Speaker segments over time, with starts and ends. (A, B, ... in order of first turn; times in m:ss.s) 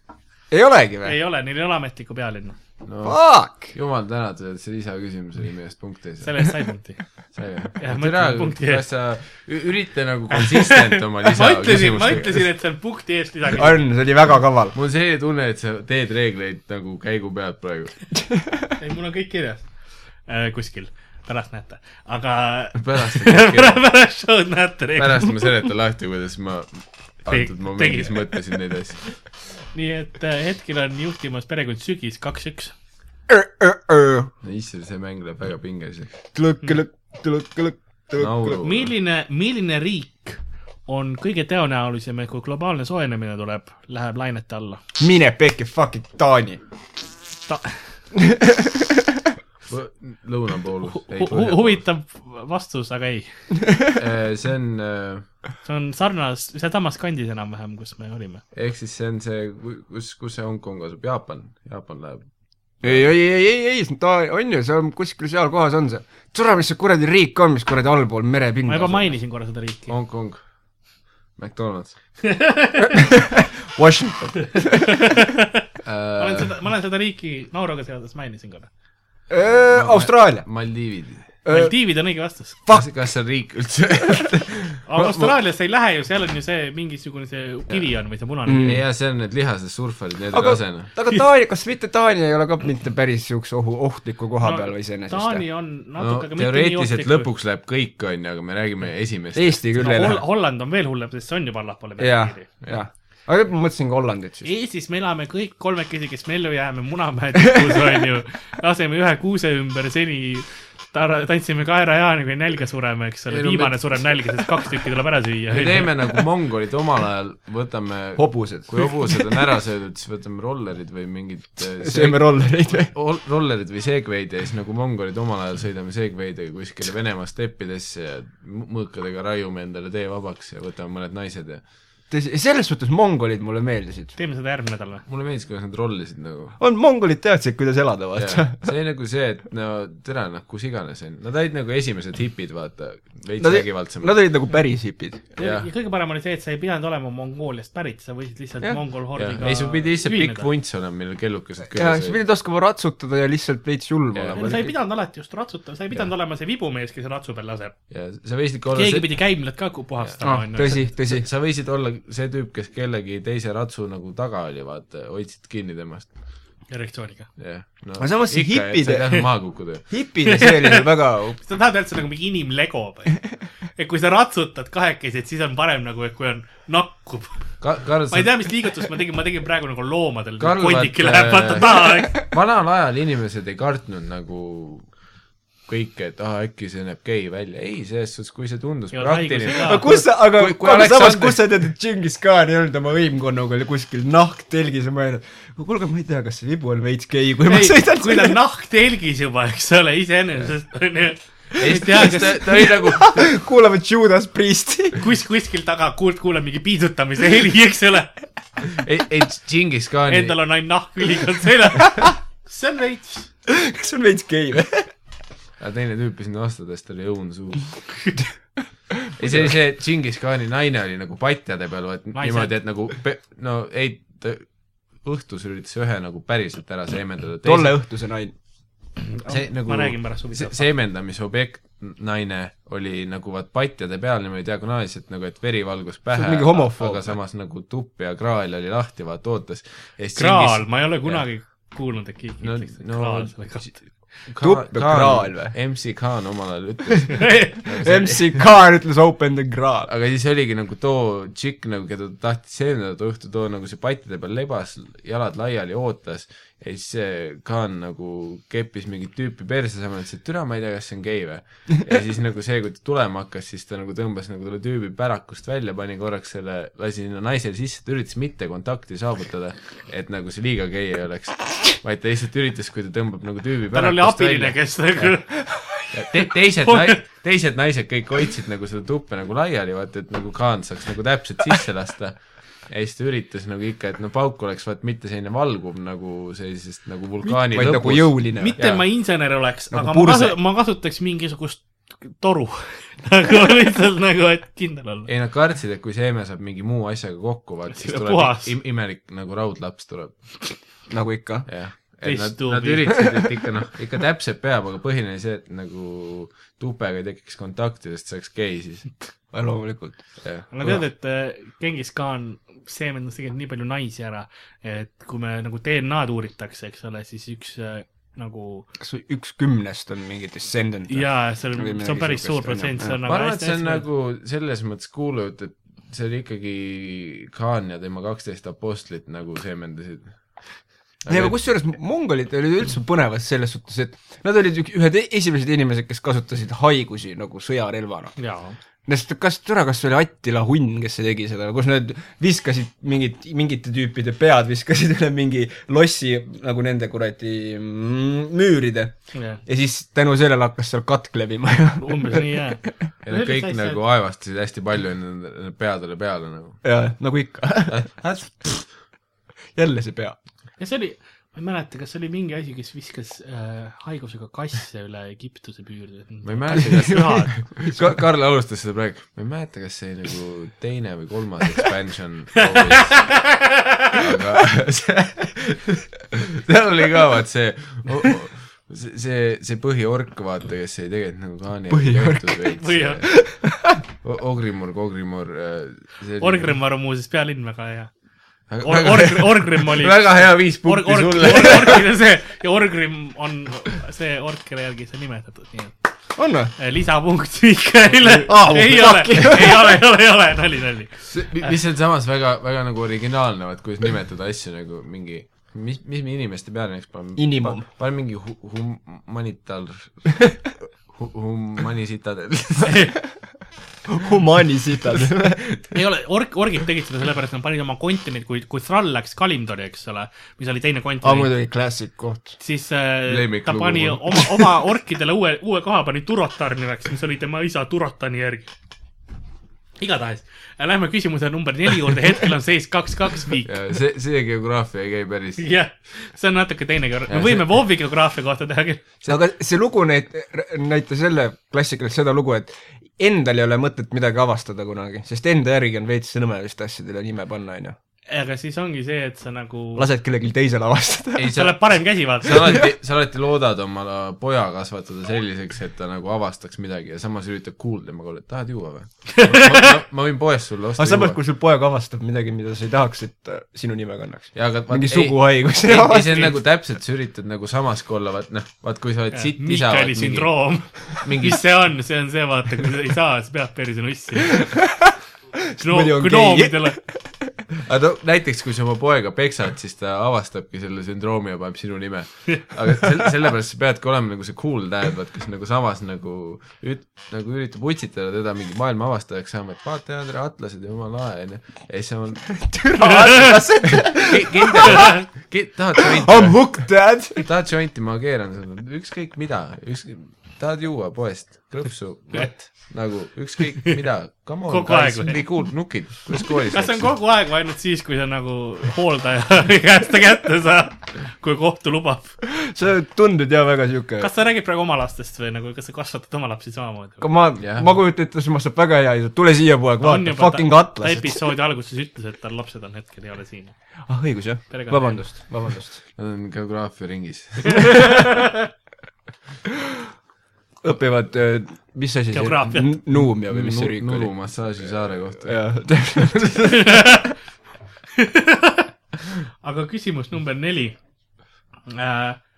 0:00.5-0:01.2 A
0:01.0-0:02.6 B
0:02.8-0:06.4 C
0:03.0-0:03.7 A
0:06.2-0:07.0 B
0:07.4-0:12.5 C
0:07.8-0:08.8 B
0:10.3-0:13.8 B
0:13.5-0:14.7 A
0:14.7-0:18.0 C
0:18.3-0:18.6 A
0:18.8-0:19.6 B
0:20.3-0:25.3 B
0:22.8-0:23.8 C
0:25.0-0:29.1 C
0:27.3-0:28.5 B
0:29.7-0:32.7 B
0:33.3-0:34.3 A
0:34.4-0:36.2 C
0:36.3-0:38.6 A
0:38.2-0:38.9 C
0:38.6-0:44.8 B
0:45.0-0:46.6 A
0:47.5-0:47.8 B
0:48.2-0:48.9 A
0:49.7-0:51.8 C
0:50.9-0:53.3 B
0:53.9-0:55.3 C
0:55.6-0:58.4 B
0:58.5-1:02.2 C
1:02.8-1:03.1 C
1:02.8-1:09.1 A
1:08.7-1:09.9 B
1:09.9-1:10.4 C
1:11.4-1:12.0 C
1:12.2-1:13.0 B
1:12.9-1:15.0 A
1:14.6-1:15.6 B
1:15.8-1:16.5 C
1:16.2-1:18.7 B
1:19.3-1:20.4 A
1:19.4-1:21.4 C
1:21.4-1:21.8 A
1:21.5-1:22.6 B
1:22.7-1:25.4 C
1:24.9-1:28.8 B
1:28.5-1:28.8 A
1:28.5-1:30.9 C
1:30.3-1:35.4 A
1:34.4-1:37.3 B
1:36.0-1:40.1 C
1:39.4-1:40.2 A
1:39.8-1:42.5 B
1:42.0-1:44.5 A
1:44.4-1:55.9 B
1:53.3-1:54.1 C
1:55.5-2:11.6 C
1:58.2-1:59.2 A
2:01.8-2:02.9 A
2:12.1-2:14.1 A
2:14.2-2:15.0 B
2:15.1-2:16.6 C
2:16.6-2:18.7 A
2:18.2-2:24.2 C
2:23.4-2:25.2 A
2:25.4-2:30.5 B
2:25.4-2:25.7 C
2:29.2-2:32.2 C
2:31.7-2:34.8 A
2:34.1-2:34.4 C
2:34.4-2:37.8 B
2:37.9-2:39.2 C
2:38.7-2:40.9 B
2:40.2-2:41.3 A
2:40.6-2:46.1 C
2:46.7-2:47.3 B
2:47.4-2:49.9 C
2:48.0-2:49.3 A
2:49.9-2:51.4 A
2:50.2-2:57.5 B
2:57.6-2:58.5 C
2:58.1-3:02.2 B
3:00.4-3:04.9 C
3:05.7-3:11.7 C
3:08.9-3:10.0 B
3:09.6-3:18.4 A
3:17.5-3:22.4 B
3:21.6-3:25.0 A
3:21.6-3:23.4 C
3:25.0-3:28.2 B
3:28.7-3:30.4 C
3:30.1-3:33.3 B
3:33.5-3:34.9 A
3:35.6-3:37.9 C
3:39.1-3:39.5 A
3:39.2-3:47.8 C
3:42.2-3:42.5 B
3:47.4-3:48.3 A
3:49.0-3:50.7 B
3:49.3-4:01.2 C
3:56.1-3:57.1 A
4:00.2-4:03.7 B
4:02.4-4:08.4 C
4:04.4-4:05.5 A
4:07.2-4:07.6 B
4:07.8-4:09.9 A
4:09.9-4:35.1 C
4:33.7-4:35.9 B
4:35.9-4:48.8 C
4:36.6-4:37.0 B
4:47.2-4:48.6 A
4:48.4-4:55.1 B
4:49.7-4:50.4 A
4:55.1-5:00.6 C
4:57.7-4:58.5 B
5:00.9-5:01.5 A
5:01.5-5:09.0 C
5:02.0-5:03.0 B
5:09.3-5:10.0 A
5:10.2-5:10.5 C
5:10.5-5:18.7 B
5:18.8-5:23.0 A
5:20.9-5:23.8 B
5:23.0-5:30.4 C
5:31.0-5:31.4 C
5:31.1-5:38.2 A
5:38.2-5:38.6 B
5:38.8-5:52.8 A
5:49.1-5:49.4 B
5:51.8-5:53.8 B
5:53.0-5:56.6 C
5:56.6-5:57.8 A
5:57.7-5:58.7 C
5:59.6-6:00.2 A
6:00.6-6:07.4 B
6:06.2-6:23.2 C
6:06.6-6:06.9 A
6:07.6-6:08.0 A
6:12.6-6:13.9 B
6:21.7-6:23.8 A
6:22.6-6:23.0 B
6:24.0-6:26.6 C
6:26.2-6:27.9 B
6:28.5-6:31.9 C
6:28.6-6:35.8 B
6:31.2-6:31.8 A
6:36.2-6:36.5 A
6:36.6-6:41.5 B
6:38.0-6:39.8 A
6:41.1-6:53.0 C
6:47.2-6:47.7 A
6:53.9-6:55.5 A
6:55.7-7:01.3 B
7:01.0-7:02.4 A
7:02.4-7:08.5 B
7:03.1-7:04.3 C
7:09.8-7:13.5 B
7:13.5-7:15.5 C
7:15.4-7:18.8 B
7:17.1-7:17.5 C
7:19.1-7:27.8 A
7:28.1-7:29.9 B
7:29.8-7:31.4 A
7:31.2-7:41.2 C
7:31.3-7:32.6 B
7:39.2-7:39.6 B
7:40.8-7:46.3 A
7:44.4-7:51.7 C
7:49.1-7:54.6 B
7:54.4-7:54.9 A
7:55.4-7:57.4 A
7:55.6-7:56.8 B
7:57.6-8:27.0 C
8:12.3-8:15.0 A
8:14.7-8:15.0 B
8:15.8-8:17.3 A
8:24.5-8:25.2 B
8:26.5-8:32.2 B
8:32.2-8:34.1 A
8:34.0-8:37.0 B
8:37.0-8:41.3 A
8:37.4-8:37.7 C
8:39.8-8:43.6 B
8:43.9-8:45.8 A
8:44.5-8:45.1 B
8:46.0-8:48.0 C
8:47.6-8:48.4 B
8:50.6-8:54.1 A
8:52.1-8:52.7 B
8:53.0-8:55.8 C
8:55.2-8:56.8 A
8:56.5-8:57.1 B
8:58.0-8:58.7 B
8:59.4-9:00.8 B
9:01.7-9:02.2 B